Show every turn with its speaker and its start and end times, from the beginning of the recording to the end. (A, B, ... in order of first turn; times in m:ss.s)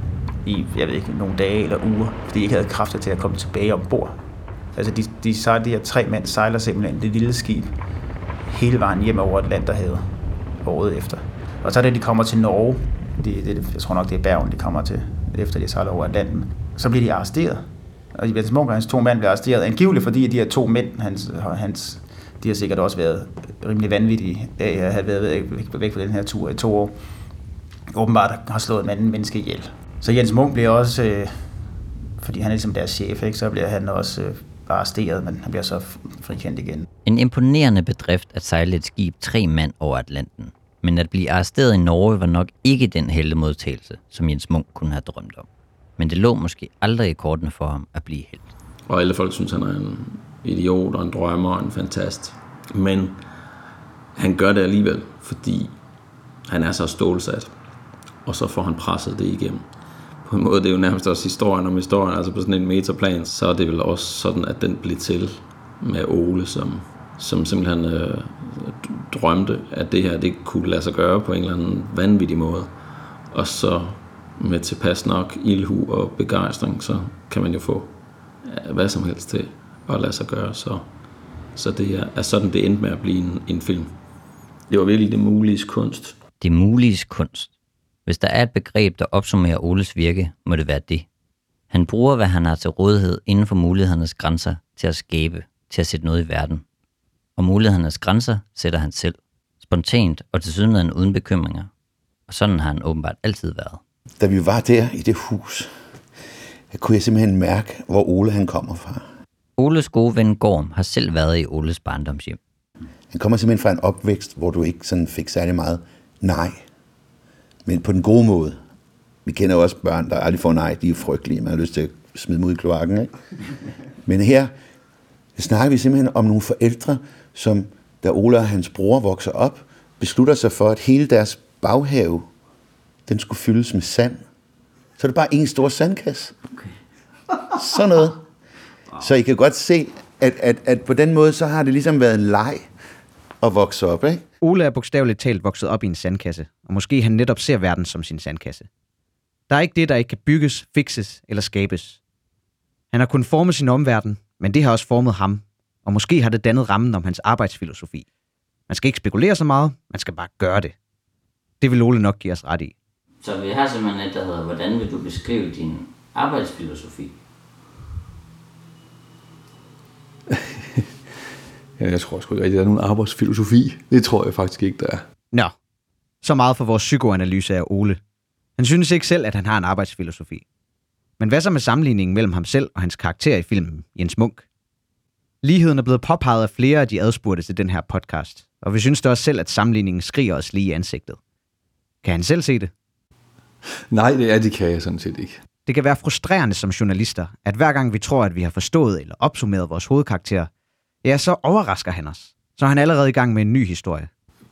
0:00.4-0:04.2 A
0:04.8-0:07.7 A
0:08.5-0:10.0 A
0:10.6-0:17.6 A
0:18.2-0:26.9 A
0:27.9-0:31.3 A
0:32.2-0:36.8 A
0:37.0-0:45.4 B
0:46.0-0:48.4 B
0:48.9-0:53.2 C
0:54.2-0:55.7 C
0:56.5-0:57.5 C
0:58.2-0:59.6 C
1:00.2-1:12.7 C
1:13.3-1:17.9 C
1:18.4-1:20.8 C
1:21.6-1:23.9 C
1:24.7-1:26.2 C
1:26.4-1:27.5 B
1:28.0-1:31.0 B
1:31.7-1:36.6 B
1:37.4-1:41.7 B
1:42.3-1:43.8 B
1:44.2-1:45.7 D
1:46.7-1:49.0 D
1:49.6-1:52.4 B
1:53.1-1:56.6 D
1:57.6-1:58.6 D
1:59.2-2:03.1 D
2:04.0-2:04.5 D
2:05.4-2:12.2 D
2:13.0-2:14.2 D
2:15.0-2:16.4 D
2:17.6-2:18.2 D
2:19.0-2:22.7 D
2:23.4-2:24.2 D
2:24.4-2:28.7 E
2:29.5-2:32.0 E
2:32.9-2:38.0 E
2:38.7-2:40.7 E
2:41.6-2:42.7 E
2:43.2-2:47.1 B
2:50.3-2:50.9 F
2:51.8-2:55.0 F
2:56.2-2:58.0 E
2:58.6-3:00.4 E
3:01.2-3:04.4 E
3:05.4-3:11.2 E
3:12.0-3:12.7 E
3:13.9-3:15.4 F
3:15.6-3:20.5 E
3:21.0-3:24.1 E